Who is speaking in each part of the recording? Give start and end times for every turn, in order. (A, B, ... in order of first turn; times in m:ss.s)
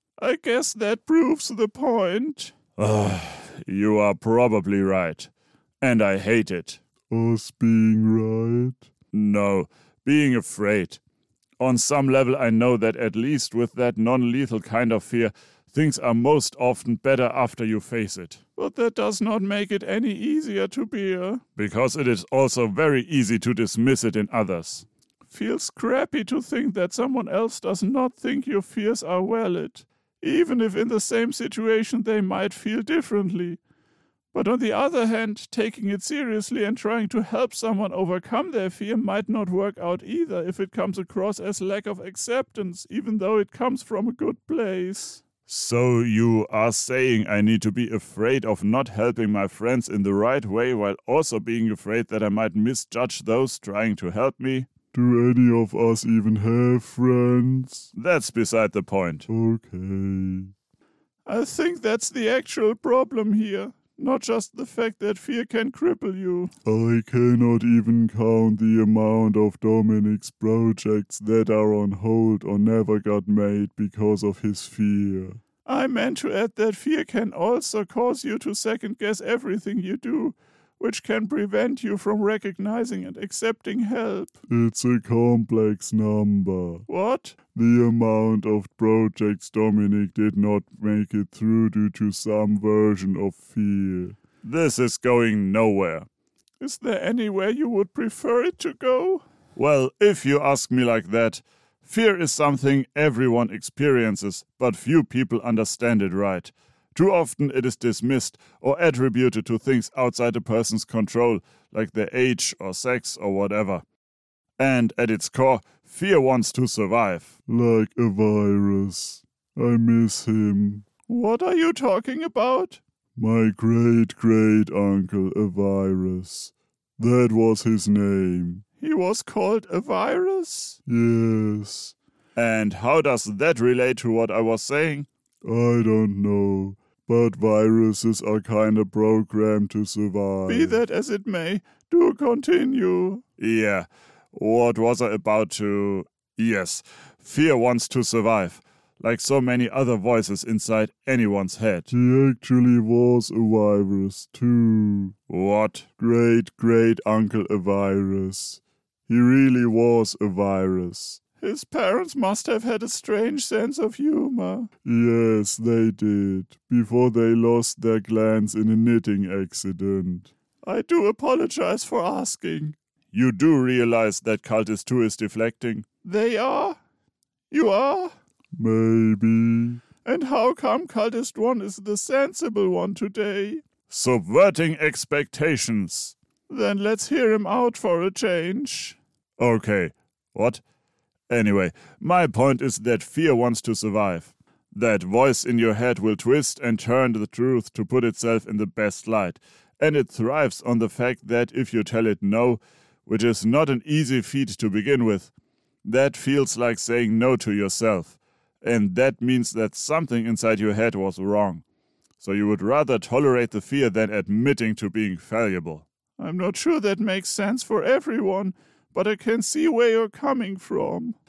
0:00.2-0:02.5 A
0:02.8-0:06.8 B
0:07.1-0:08.9 C
0:09.1-0:11.0 B
0:11.6-0:18.4 B
0:18.6-0:21.4 A
0:21.6-0:24.8 B
0:25.3-0:33.6 A
0:34.3-0:45.2 A
0:45.4-0:54.7 B
0:54.9-0:57.9 C
0:57.9-0:59.3 B
0:59.3-1:00.5 C
1:01.2-1:06.5 A
1:06.6-1:15.4 C
1:15.6-1:24.4 A
1:24.5-1:26.8 C
1:26.9-1:27.4 A
1:27.5-1:34.2 C
1:34.4-1:36.1 B
1:36.6-1:39.2 A
1:39.6-1:53.8 B
1:54.6-1:57.3 B
1:57.5-2:00.8 C
2:01.1-2:02.8 A
2:03.2-2:08.6 C
2:08.8-2:10.8 A
2:10.9-2:11.9 C
2:12.4-2:15.1 B
2:15.4-2:20.8 C
2:20.5-2:23.2 A
2:23.4-2:31.9 B
2:31.9-2:35.2 C
2:35.3-2:35.9 B
2:36.0-2:41.2 C
2:41.4-2:44.7 A
2:44.8-2:50.3 C
2:50.6-2:52.8 A
2:53.1-2:55.8 B
2:56.0-2:56.8 A
2:57.5-2:58.1 A
2:58.5-2:59.8 C
3:00.0-3:03.6 A
3:03.9-3:06.1 B
3:06.5-3:09.0 A
3:09.4-3:10.6 B
3:11.3-3:25.3 B
3:25.8-3:31.6 B
3:32.2-3:35.8 B
3:36.2-3:41.2 A